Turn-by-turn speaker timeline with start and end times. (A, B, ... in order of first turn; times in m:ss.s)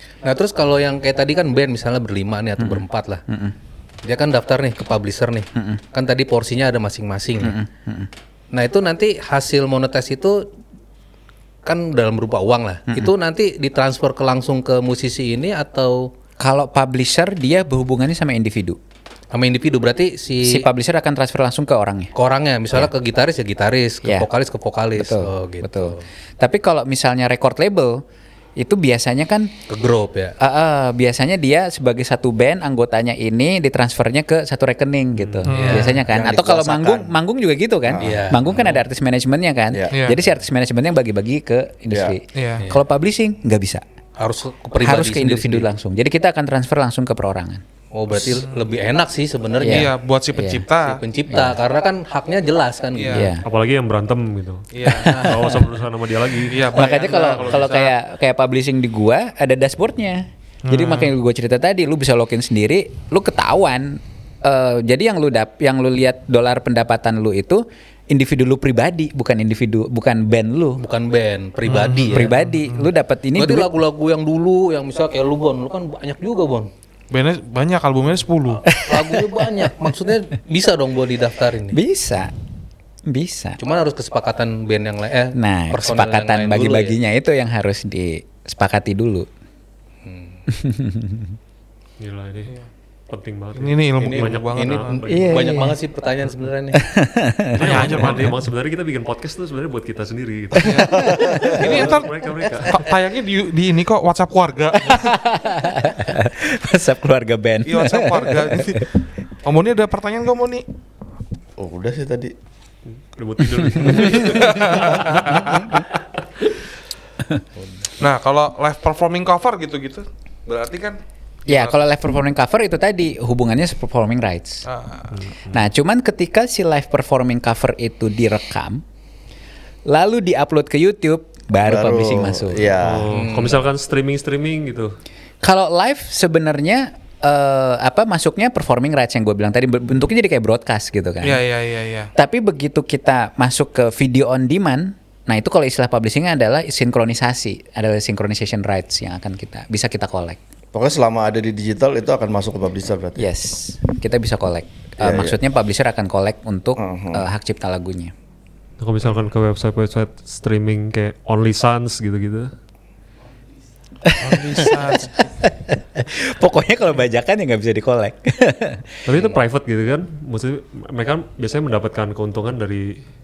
0:00.2-0:03.2 A
0:02.6-0:03.6 B
0:04.0-0:07.6 A
0:05.6-0:05.8 B
0:07.4-0:08.1 B
0:08.5-0:10.5 A
0:11.6-0:16.1 A
0:12.9-0:13.1 B
0:16.4-0:18.8 B
0:19.3-0:20.6 A
0:20.4-0:22.1 B
0:22.2-0:26.0 A
0:25.0-0:28.0 B
0:28.6-0:29.5 B
0:29.7-0:30.4 A
0:30.4-0:43.8 B
0:35.4-0:36.0 A
0:35.5-0:36.0 C
0:36.0-0:37.2 D
0:37.8-0:38.3 D
0:38.0-0:38.8 A
0:39.9-0:40.2 C
0:41.9-0:42.2 D
0:42.4-0:42.7 C
0:44.2-0:45.7 A
0:44.8-0:47.6 B
0:47.9-0:49.9 A
0:48.3-0:48.6 C
0:49.6-0:50.6 B
0:49.6-0:51.0 C
0:50.8-0:53.3 A
0:51.3-0:51.6 B
0:52.9-0:53.3 C
0:53.1-0:53.4 B
0:53.4-0:56.6 E
0:54.7-0:55.1 C
0:54.8-0:55.7 B
0:55.1-0:55.6 A
0:56.5-0:58.0 C
0:56.8-0:57.7 A
0:56.8-1:10.8 B
1:00.7-1:01.2 C
1:10.8-1:12.3 A
1:11.6-1:12.9 C
1:12.0-1:13.7 B
1:13.4-1:16.7 A
1:17.1-1:18.7 C
1:18.7-1:19.7 B
1:18.7-1:21.8 A
1:21.7-1:22.3 B
1:23.1-1:23.6 B
1:23.6-1:27.0 A
1:25.3-1:29.3 B
1:30.0-1:30.4 A
1:30.5-1:31.4 B
1:32.0-1:32.6 E
1:33.1-1:35.6 E
1:33.6-1:35.0 C
1:34.0-1:36.8 A
1:35.1-1:35.8 B
1:36.7-1:38.3 B
1:37.6-1:42.8 E
1:37.6-1:38.4 C
1:40.6-1:41.0 C
1:40.6-1:41.8 B
1:40.9-1:41.6 D
1:41.5-1:42.1 C
1:42.4-1:42.7 B
1:42.6-1:45.2 C
1:44.8-1:48.8 B
1:47.6-1:48.9 C
1:49.4-1:50.6 C
1:51.6-1:52.3 D
1:52.9-1:56.0 E
1:53.7-1:55.8 B
1:53.9-1:55.8 C
1:57.6-1:57.9 A
1:58.0-2:01.8 C
2:01.5-2:04.6 B
2:04.6-2:05.2 C
2:05.1-2:05.6 E
2:05.5-2:08.8 B
2:09.9-2:12.8 B
2:11.6-2:13.3 D
2:12.8-2:15.0 E
2:13.1-2:13.6 A
2:15.4-2:21.4 B
2:21.2-2:22.1 C
2:22.2-2:30.4 B
2:30.7-2:33.3 D
2:33.2-2:38.1 B
2:35.0-2:35.4 D
2:36.8-2:37.3 D
2:38.8-2:42.5 E
2:39.0-2:39.3 C
2:44.0-2:49.0 B
2:44.2-2:45.2 C
2:49.1-2:53.0 E